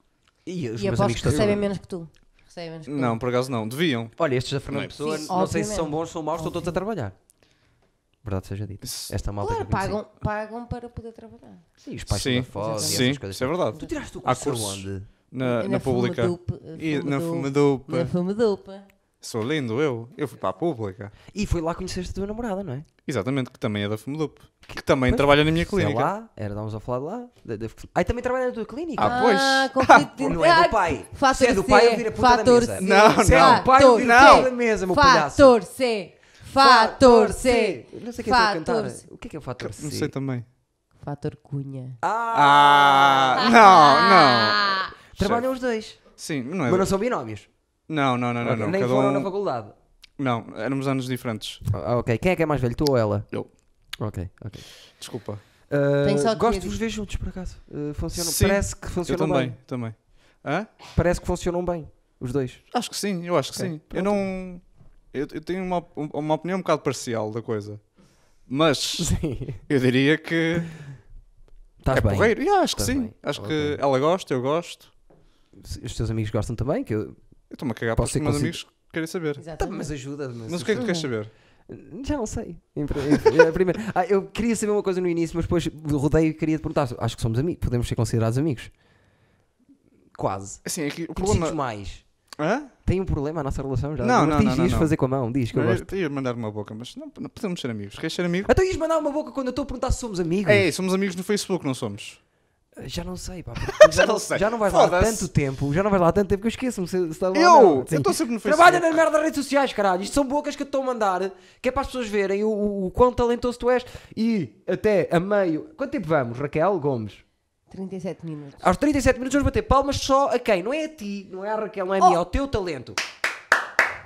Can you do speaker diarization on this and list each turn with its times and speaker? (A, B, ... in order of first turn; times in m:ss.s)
0:00.4-0:01.7 A
0:00.8-0:03.2 B
0:02.9-0:04.1 C
0:04.2-0:07.1 A
0:04.7-0:04.9 C
0:05.0-0:06.8 B
0:08.2-0:10.0 A
0:08.8-0:09.1 C
0:09.4-0:11.6 B
0:11.8-0:15.1 A
0:12.1-0:18.1 C
0:12.5-0:13.2 B
0:15.4-0:18.8 B
0:19.2-0:21.1 C
0:21.3-0:22.9 A
0:23.0-0:26.1 C
0:24.7-0:29.2 A
0:29.0-0:30.4 C
0:29.0-0:39.0 B
0:30.2-0:35.6 A
0:32.8-0:34.5 C
0:36.6-0:40.1 A
0:39.6-0:40.4 C
0:41.0-0:42.0 B
0:42.0-0:43.6 A
0:42.3-0:45.4 C
0:43.4-0:44.9 B
0:45.1-0:46.0 A
0:46.2-0:46.9 C
0:46.6-0:47.5 A
0:47.9-0:49.3 C
0:48.4-0:49.8 A
0:50.2-0:51.6 C
0:51.7-0:53.3 A
0:54.0-0:54.7 A
0:55.0-0:55.4 C
0:55.7-0:59.6 A
0:56.0-0:56.8 B
0:58.1-1:00.7 C
1:00.9-1:02.6 A
1:02.7-1:07.8 C
1:03.5-1:04.2 A
1:08.5-1:09.1 C
1:09.0-1:09.6 A
1:09.7-1:10.7 C
1:11.8-1:13.8 A
1:11.9-1:14.9 C
1:15.6-1:17.2 A
1:17.5-1:19.4 C
1:18.0-1:18.6 A
1:19.4-1:19.9 B
1:19.6-1:21.1 A
1:20.5-1:21.3 C
1:20.8-1:21.0 B
1:21.7-1:28.7 A
1:30.2-1:32.0 A
1:30.6-1:31.6 C
1:32.4-1:32.7 C
1:32.8-1:35.9 A
1:34.0-1:34.9 C
1:35.5-1:38.5 C
1:38.4-1:40.7 A
1:40.4-1:42.2 C
1:42.8-1:57.2 A
1:43.7-1:45.3 C
1:47.3-1:49.0 C
1:57.7-1:58.7 B
1:58.6-2:03.0 A